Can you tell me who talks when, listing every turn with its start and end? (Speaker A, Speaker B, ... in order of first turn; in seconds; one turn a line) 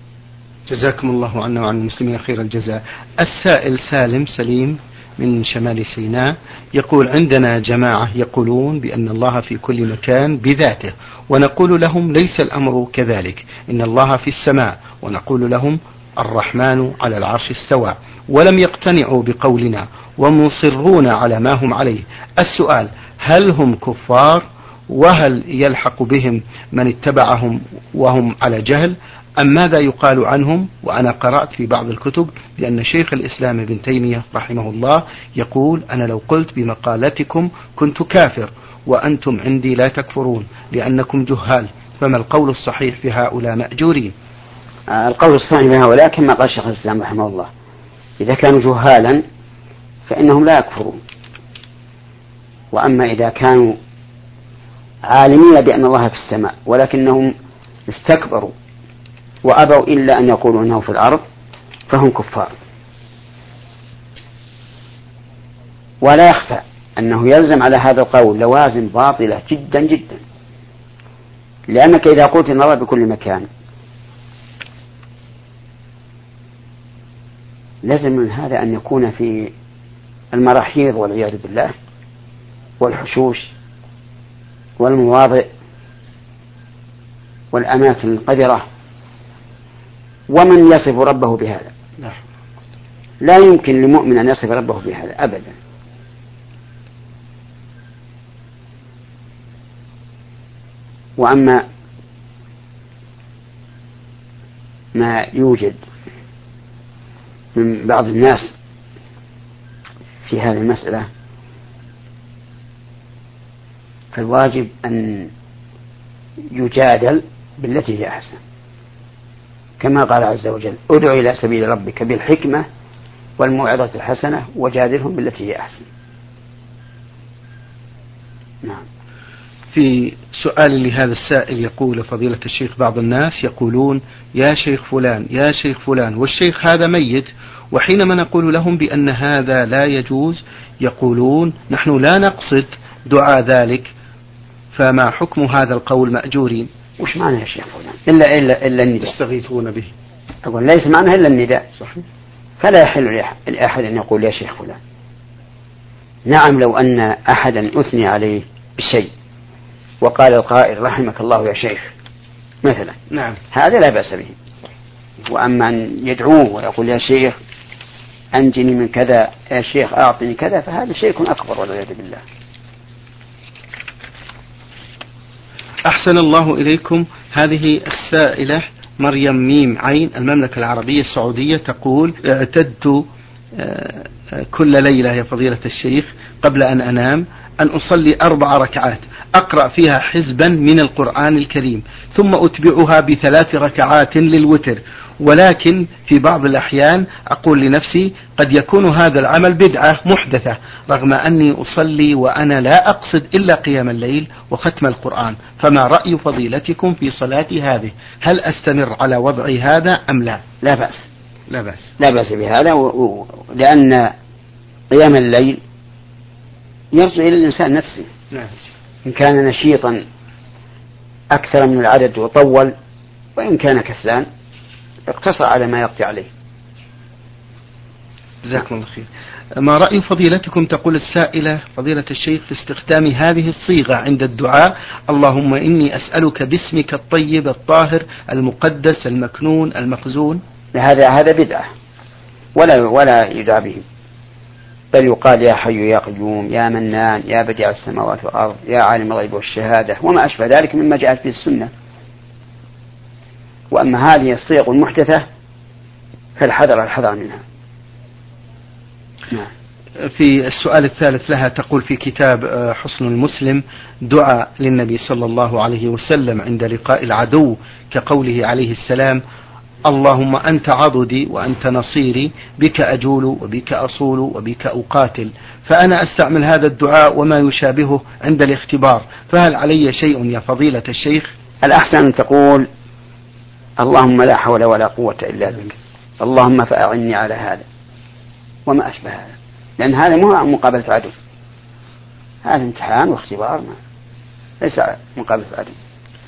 Speaker A: 0.7-44.1
Speaker B: 44.9-47.5
Speaker B: 48.2-49.2
Speaker B: 50.1-51.0
Speaker B: 52.7-53.8
Speaker B: 55.0-57.3
Speaker B: 57.9-58.5
Speaker B: 59.4-61.2
Speaker B: 61.9-62.5
Speaker B: 66.0-70.2
Speaker B: 71.7-73.5
Speaker B: 77.8-79.5
Speaker B: 80.3-81.8
Speaker B: 82.8-83.5
Speaker B: 84.8-85.5
Speaker B: 87.5-88.6
Speaker B: 90.3-91.7
Speaker B: 93.2-95.5
Speaker B: 101.2-101.6
Speaker B: 104.9-105.8
Speaker B: 107.5-108.5
Speaker B: 110.2-111.1
Speaker B: 114.1-115.3
Speaker B: 116.5-118.4
Speaker B: 119.8-122.7
Speaker B: 123.4-125.9
Speaker A: 129.7-143.9
Speaker A: 144.7-146.7
Speaker B: 147.0-149.2
Speaker A: 149.0-149.9
Speaker B: 150.4-151.6
Speaker B: 152.6-154.8
Speaker B: 156.3-159.1
Speaker B: 160.0-161.9
Speaker B: 162.6-163.0
Speaker A: 163.1-163.4
Speaker B: 163.5-164.4
Speaker B: 165.2-167.4
Speaker B: 168.3-172.2
Speaker A: 175.9-210.4
Speaker B: 210.6-211.1
Speaker A: 211.5-211.9
Speaker B: 212.0-214.1
Speaker B: 214.9-215.6
Speaker B: 216.9-218.1
Speaker B: 219.1-220.0
Speaker B: 221.3-222.7
Speaker B: 223.4-224.3
Speaker B: 225.1-226.3
Speaker A: 228.4-240.4
Speaker B: 240.7-241.7
Speaker B: 242.6-243.8
Speaker B: 244.9-251.7
Speaker B: 253.7-255.2
Speaker B: 256.4-257.4
Speaker A: 260.0-269.2
Speaker A: 269.9-281.3
Speaker B: 281.6-282.7
Speaker B: 283.8-287.6
Speaker B: 288.7-291.1
Speaker B: 292.4-293.8
Speaker B: 294.6-295.8